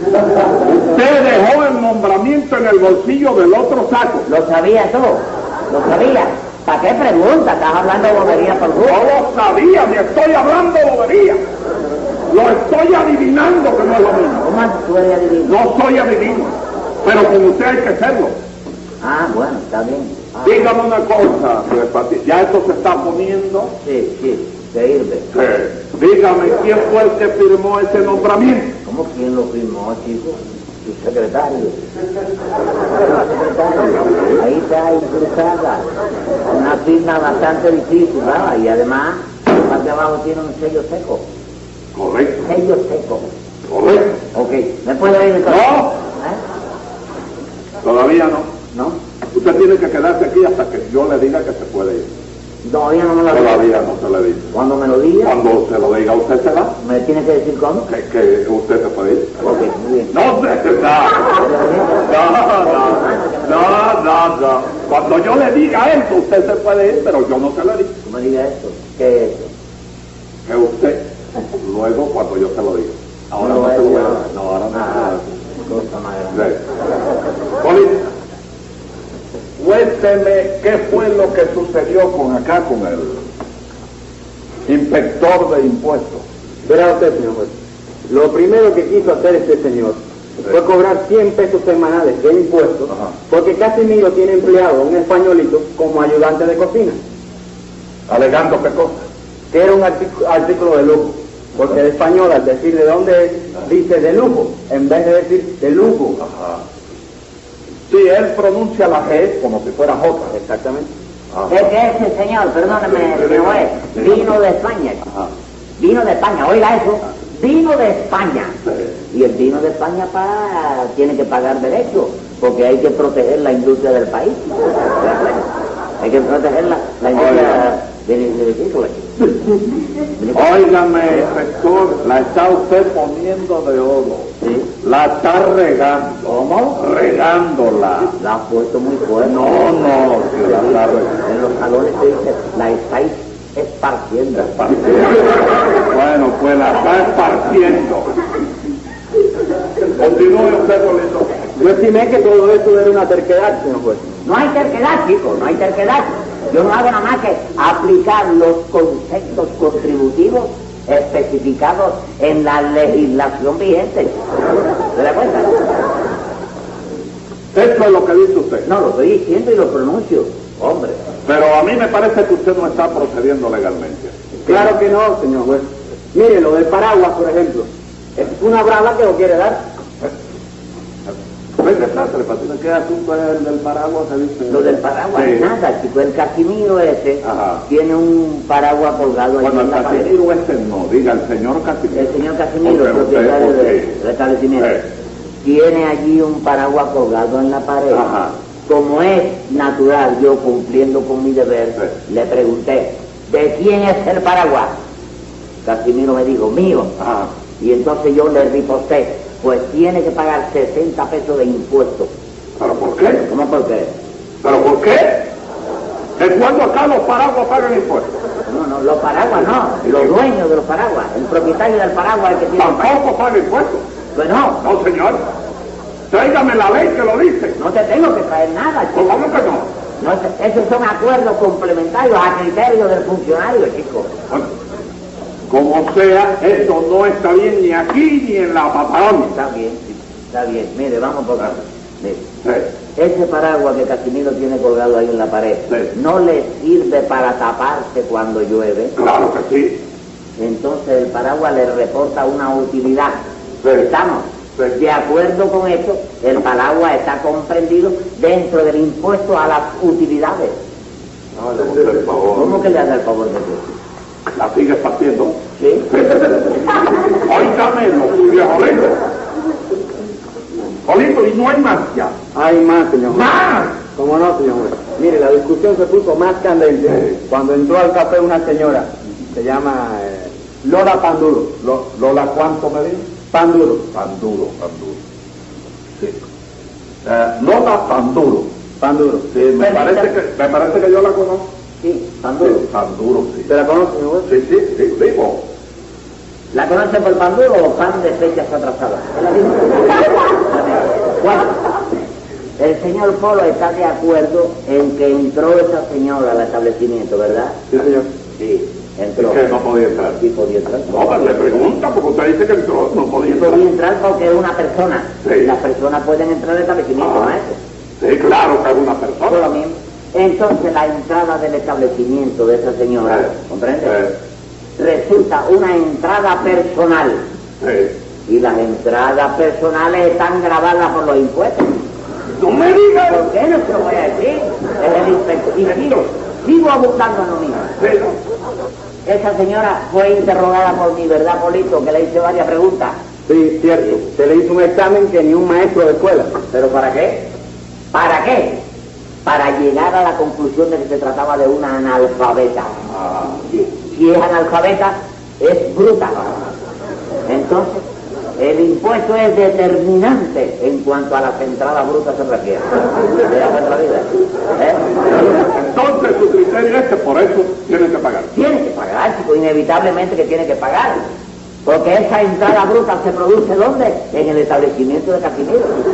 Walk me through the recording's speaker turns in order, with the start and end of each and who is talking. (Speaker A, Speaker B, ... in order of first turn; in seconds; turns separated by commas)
Speaker A: 0.6-4.3, Speaker B: 4.3-9.1, Speaker A: 8.8-11.4, Speaker A: 12.3-14.4, Speaker B: 14.4-15.6, Speaker A: 15.4-18.4, Speaker B: 19.0-20.7, Speaker A: 20.4-23.7, Speaker B: 23.8-25.3, Speaker A: 25.3-28.7, Speaker B: 28.8-31.8, Speaker B: 33.0-35.9, Speaker B: 36.5-41.2, Speaker A: 41.9-42.5, Speaker B: 42.4-43.3, Speaker A: 43.7-44.2, Speaker B: 44.3-46.4, Speaker A: 45.4-46.0, Speaker A: 47.8-48.5, Speaker B: 48.7-49.0, Speaker A: 49.3-52.1, Speaker B: 52.6-53.6, Speaker A: 53.3-54.5, Speaker B: 54.5-55.3, Speaker A: 55.2-56.8, Speaker B: 56.8-57.9, Speaker A: 57.9-59.4, Speaker B: 59.4-60.1, Speaker A: 60.1-61.4, Speaker B: 61.3-63.8, Speaker A: 62.0-67.9, Speaker B: 68.0-69.5, Speaker A: 70.5-71.0, Speaker A: 71.6-75.2, Speaker B: 73.4-75.1, Speaker B: 75.6-76.5, Speaker A: 76.3-76.6, Speaker A: 77.6-78.0, Speaker A: 79.6-83.2, Speaker A: 84.7-86.2, Speaker C: 86.6-87.5, Speaker C: 88.1-97.0, Speaker A: 98.1-99.0, Speaker C: 99.5-106.2, Speaker A: 106.2-106.6, Speaker A: 107.9-110.3, Speaker C: 110.3-110.9, Speaker A: 111.3-111.7, Speaker B: 111.5-115.0, Speaker A: 112.9-114.1, Speaker B: 115.8-118.6, Speaker B: 119.1-125.5, Speaker B: 126.0-129.1, Speaker A: 127.1-127.7, Speaker B: 130.2-130.6, Speaker A: 130.3-134.3, Speaker B: 134.4-134.7, Speaker A: 134.8-138.1, Speaker B: 136.2-136.8, Speaker B: 138.2-139.5, Speaker A: 139.2-141.1, Speaker B: 140.4-144.5, Speaker A: 144.5-148.1, Speaker A: 150.0-151.4, Speaker C: 151.6-154.0, Speaker B: 154.2-164.2, Speaker B: 164.9-165.5, Speaker A: 167.5-168.7, Speaker B: 168.7-171.0, Speaker A: 171.2-174.6, Speaker C: 174.4-179.6, Speaker A: 181.6-185.5, Speaker B: 184.5-190.1, Speaker A: 187.2-187.6, Speaker A: 189.4-193.9, Speaker B: 191.9-194.8, Speaker B: 195.4-198.0, Speaker A: 197.9-198.3, Speaker B: 198.7-204.7, Speaker B: 205.6-206.9, Speaker A: 207.0-207.3, Speaker B: 207.6-212.1, Speaker A: 212.6-213.2, Speaker B: 213.2-213.9, Speaker A: 214.4-215.3, Speaker A: 216.2-218.2, Speaker B: 218.4-222.9, Speaker A: 219.8-220.1, Speaker A: 222.6-223.8, Speaker B: 224.1-224.6, Speaker A: 224.6-225.2, Speaker A: 226.1-227.6, Speaker B: 227.6-234.1, Speaker A: 228.9-229.7, Speaker A: 235.5-239.3, Speaker B: 239.2-242.2, Speaker A: 242.4-242.7, Speaker B: 242.9-248.9, Speaker A: 248.9-249.8, Speaker B: 250.4-260.6, Speaker A: 261.3-262.6, Speaker B: 262.3-263.7, Speaker A: 264.3-266.6, Speaker B: 265.6-265.9, Speaker A: 267.1-269.0, Speaker A: 270.8-272.1, Speaker C: 272.3-281.5, Speaker A: 273.1-273.8, Speaker A: 281.6-283.1, Speaker C: 283.3-283.9, Speaker A: 283.9-285.0, Speaker A: 287.0-288.5, Speaker C: 288.8-289.3, Speaker A: 289.3-291.5, Speaker B: 289.6-290.1, Speaker B: 291.8-292.6, Speaker A: 292.4-293.5, Speaker C: 293.5-294.3, Speaker A: 294.2-295.4, Speaker B: 296.5-301.6, Speaker B: 302.6-309.4, Speaker A: 309.2-310.2, Speaker B: 310.2-311.7, Speaker A: 310.9-313.6, Speaker B: 313.2-317.6, Speaker A: 315.2-315.5, Speaker A: 317.0-317.3, Speaker A: 318.0-319.5, Speaker B: 319.2-324.0, Speaker A: 323.8-324.1, Speaker B: 324.8-327.2, Speaker A: 327.6-327.9, Speaker B: 328.3-331.8, Speaker A: 332.4-333.3, Speaker B: 333.1-337.8, Speaker A: 335.6-336.0, Speaker A: 337.8-338.1, Speaker B: 339.0-342.9, Speaker C: 343.3-346.3, Speaker B: 346.5-347.3, Speaker B: 347.9-348.6, Speaker B: 349.2-352.8, Speaker B: 353.8-356.2, Speaker B: 357.3-357.8, Speaker B: 358.4-364.9, Speaker A: 365.1-368.3, Speaker B: 368.3-371.0, Speaker B: 371.6-375.8